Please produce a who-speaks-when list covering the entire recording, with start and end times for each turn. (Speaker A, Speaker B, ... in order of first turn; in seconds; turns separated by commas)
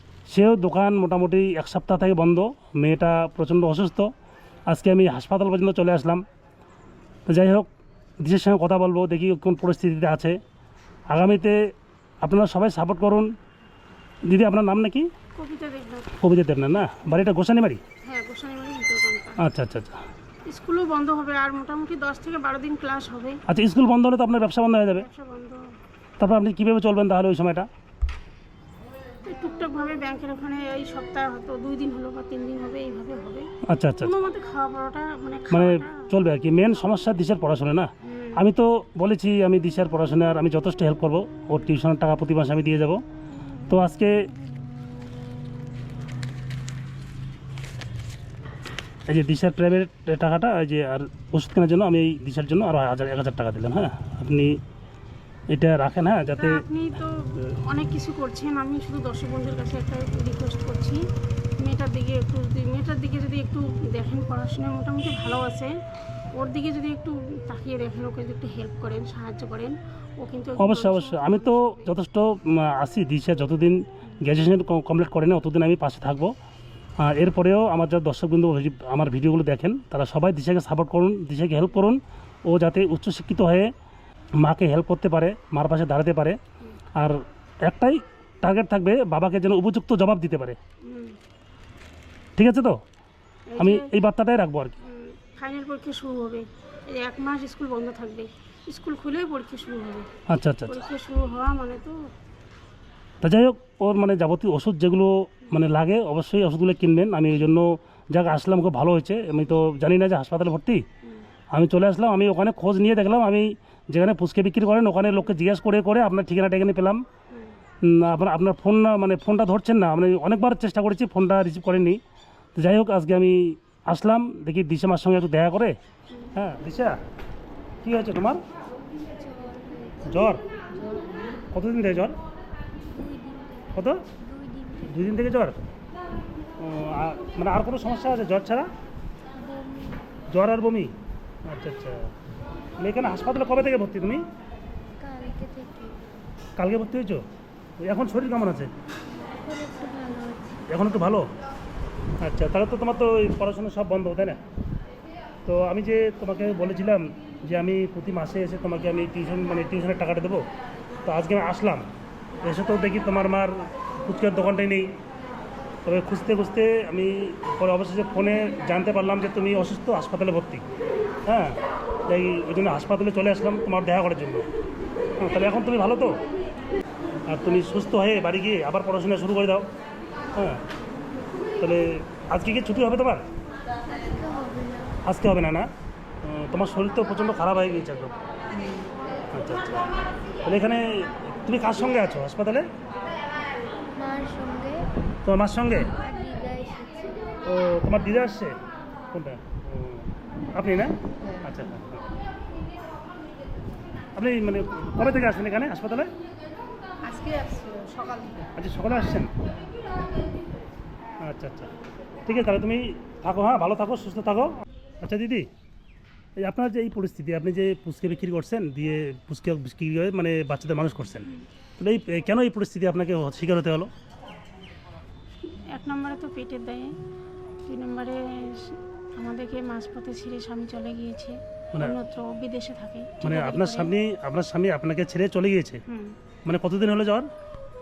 Speaker A: 0.3-4.1, Speaker A: 4.7-6.2, Speaker A: 7.3-7.7, Speaker A: 8.2-10.4, Speaker A: 11.1-11.6, Speaker A: 12.2-13.3, Speaker A: 14.2-15.1, Speaker B: 15.3-16.1, Speaker A: 16.2-17.8, Speaker B: 18.0-19.4, Speaker A: 19.4-20.0, Speaker B: 20.4-23.4, Speaker A: 23.5-25.1, Speaker B: 24.9-25.6, Speaker A: 26.2-27.7, Speaker B: 29.2-33.5, Speaker A: 33.7-34.1, Speaker B: 34.0-36.1, Speaker A: 35.5-43.0, Speaker B: 38.0-38.4, Speaker A: 43.7-44.3, Speaker A: 49.1-54.6, Speaker A: 55.5-56.6, Speaker B: 56.4-61.0, Speaker B: 61.6-65.7, Speaker B: 66.3-71.9, Speaker A: 70.6-76.3, Speaker A: 77.0-83.7, Speaker A: 84.4-86.4, Speaker A: 87.0-90.6, Speaker B: 90.8-91.2, Speaker A: 92.3-92.8, Speaker B: 93.5-93.9, Speaker A: 93.6-94.8, Speaker B: 94.8-100.1, Speaker A: 100.3-100.8, Speaker B: 100.7-102.0, Speaker A: 103.2-110.8, Speaker A: 111.5-117.0, Speaker A: 117.8-122.0, Speaker A: 122.5-125.8, Speaker A: 126.3-127.0, Speaker A: 127.8-128.4, Speaker C: 129.2-130.2, Speaker A: 130.0-130.4, Speaker C: 130.7-131.4, Speaker A: 131.5-132.2, Speaker C: 132.9-135.0, Speaker A: 133.7-134.1, Speaker A: 134.9-135.7, Speaker A: 136.6-138.7, Speaker C: 139.4-140.0, Speaker A: 140.3-140.9, Speaker A: 141.4-142.1, Speaker A: 142.8-144.2, Speaker C: 145.0-146.1, Speaker A: 146.6-147.2, Speaker A: 147.8-148.7, Speaker C: 149.3-150.6, Speaker A: 150.7-151.3, Speaker A: 152.2-154.4, Speaker A: 155.4-160.4, Speaker A: 161.0-161.9, Speaker A: 162.4-164.9, Speaker A: 165.8-170.6, Speaker A: 171.3-174.5, Speaker A: 175.2-176.2, Speaker A: 177.3-179.7, Speaker A: 180.3-180.6, Speaker A: 181.6-183.2, Speaker C: 183.9-184.9, Speaker A: 185.0-185.7, Speaker A: 186.2-188.2, Speaker A: 189.3-189.9, Speaker A: 190.4-192.7, Speaker C: 193.9-194.9, Speaker A: 195.2-195.9, Speaker C: 196.0-197.2, Speaker A: 197.4-198.6, Speaker A: 199.1-202.0, Speaker A: 204.2-206.1, Speaker B: 207.0-208.5, Speaker A: 208.5-209.3, Speaker A: 211.2-211.7, Speaker A: 212.2-215.5, Speaker A: 216.4-223.9, Speaker B: 225.7-226.9, Speaker B: 227.7-233.9, Speaker A: 233.2-235.8, Speaker B: 235.9-236.2, Speaker A: 236.4-237.3